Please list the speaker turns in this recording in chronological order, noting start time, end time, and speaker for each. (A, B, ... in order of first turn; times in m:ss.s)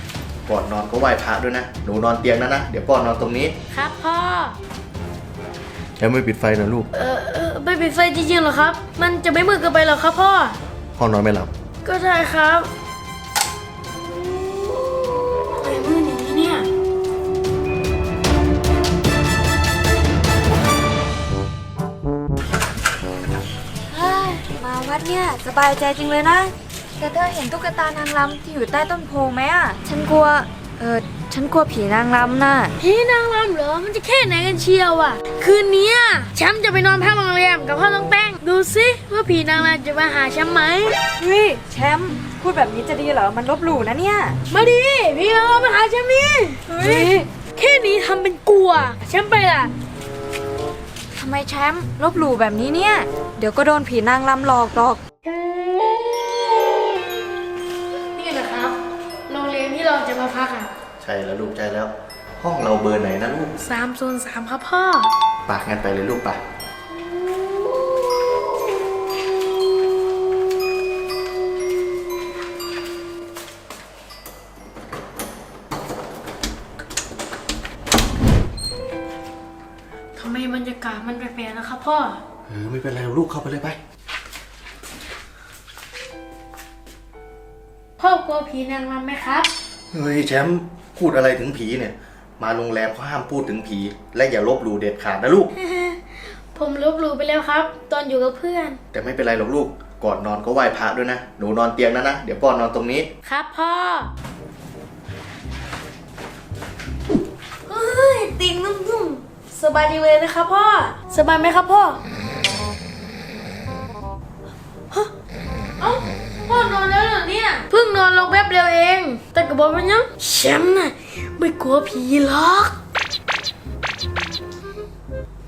0:00.4-0:03.5 A
0:03.7-0:04.6 B
0:06.0-0:06.9 A
0:06.9-0:10.6 B
0:11.0-0:11.5 A
0:11.8-0:12.7 B
0:15.5-0:16.7 B
0:23.9-0:32.7 C
0:32.8-0:41.0 B
0:41.2-0:44.4 C
0:44.5-0:49.7 B
0:46.7-0:47.2 C
0:51.1-0:55.0 C
0:58.2-1:00.7 B
1:01.0-1:03.5 A
1:03.6-1:05.1 B
1:05.5-1:06.4 A
1:20.2-1:22.2 B
1:22.5-1:23.8 A
1:28.0-1:29.5 B
1:29.9-1:35.5 A
1:35.6-1:36.0 B
1:36.5-1:38.8 B
1:38.9-1:43.1 A
1:43.2-1:44.1 B
1:47.6-1:52.0 B
1:55.8-2:02.8 B